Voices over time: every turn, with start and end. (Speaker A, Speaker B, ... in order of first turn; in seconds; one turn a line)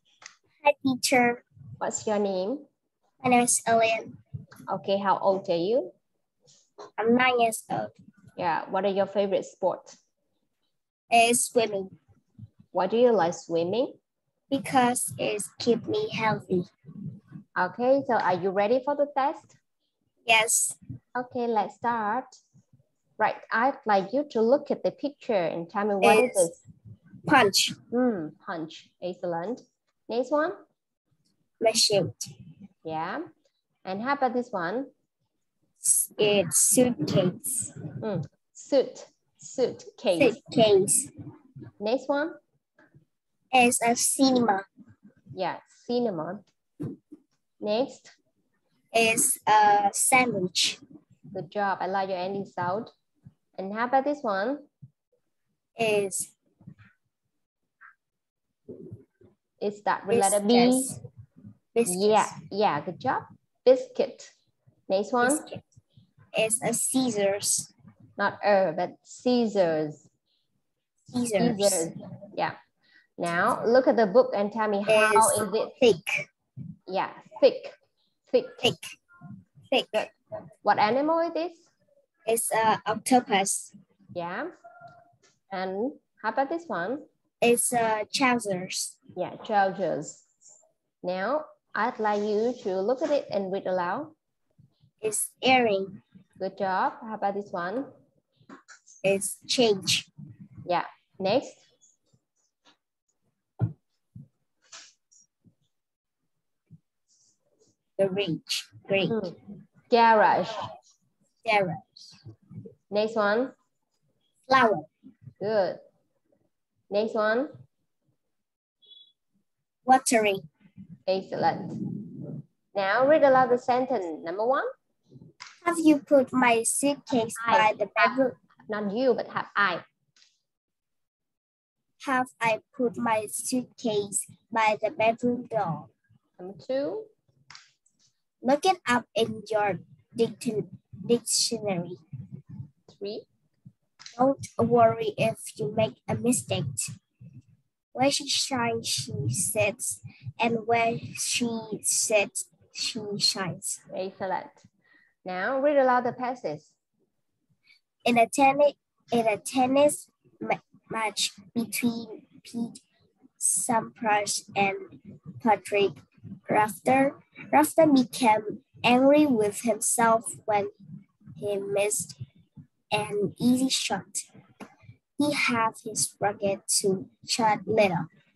Speaker A: 0.6-1.4
Speaker B: 1.8-2.6
Speaker A: 3.2-4.2
Speaker B: 4.7-5.9
Speaker A: 7.0-7.9
Speaker B: 8.4-9.9
Speaker A: 11.1-11.9
Speaker B: 12.7-13.9
Speaker A: 14.5-16.7
Speaker B: 17.6-19.6
Speaker A: 20.2-20.8
Speaker B: 21.1-22.3
Speaker B: 23.2-26.5
Speaker A: 26.0-26.6
Speaker A: 27.3-27.8
Speaker B: 27.9-30.6
Speaker A: 31.6-32.3
Speaker B: 32.8-33.2
Speaker B: 33.8-34.9
Speaker A: 35.8-37.7
Speaker B: 38.0-40.4
Speaker A: 40.1-41.1
Speaker B: 41.8-42.4
Speaker A: 43.5-44.6
Speaker B: 45.3-46.5
Speaker B: 47.6-48.1
Speaker A: 48.9-50.8
Speaker B: 51.3-52.9
Speaker B: 53.6-54.6
Speaker A: 55.8-56.3
Speaker B: 59.6-60.9
Speaker A: 60.1-61.0
Speaker A: 61.7-62.3
Speaker B: 61.9-64.3
Speaker B: 64.9-65.4
Speaker A: 65.2-65.6
Speaker A: 66.3-67.7
Speaker B: 68.2-70.0
Speaker A: 71.1-71.9
Speaker B: 71.4-72.5
Speaker B: 73.2-75.7
Speaker A: 74.9-76.3
Speaker B: 76.9-77.7
Speaker B: 78.3-78.7
Speaker A: 78.6-78.8
Speaker A: 79.7-80.1
Speaker B: 80.6-81.6
Speaker A: 82.2-83.7
Speaker B: 84.1-84.5
Speaker B: 85.5-87.0
Speaker A: 87.4-89.0
Speaker B: 89.2-90.2
Speaker B: 91.0-94.1
Speaker A: 95.0-96.0
Speaker B: 96.4-97.9
Speaker A: 99.0-100.1
Speaker B: 100.7-101.6
Speaker A: 108.0-109.3
Speaker B: 109.1-109.3
Speaker B: 109.9-110.6
Speaker A: 111.4-112.2
Speaker B: 112.9-113.5
Speaker A: 114.5-114.9
Speaker B: 115.4-115.8
Speaker B: 116.9-117.5
Speaker A: 119.8-120.4
Speaker B: 121.1-121.8
Speaker B: 122.7-124.7
Speaker A: 125.6-128.3
Speaker B: 127.3-129.8
Speaker A: 132.0-135.9
Speaker B: 136.4-137.1
Speaker A: 138.4-142.0
Speaker B: 142.9-143.2
Speaker A: 144.2-146.8
Speaker A: 147.9-153.8
Speaker B: 153.9-154.6
Speaker B: 155.2-156.7
Speaker A: 158.0-162.8
Speaker A: 163.4-164.9
Speaker A: 165.4-166.0
Speaker A: 166.5-170.7
Speaker A: 171.4-172.2
Speaker A: 172.9-174.2
Speaker A: 175.2-178.1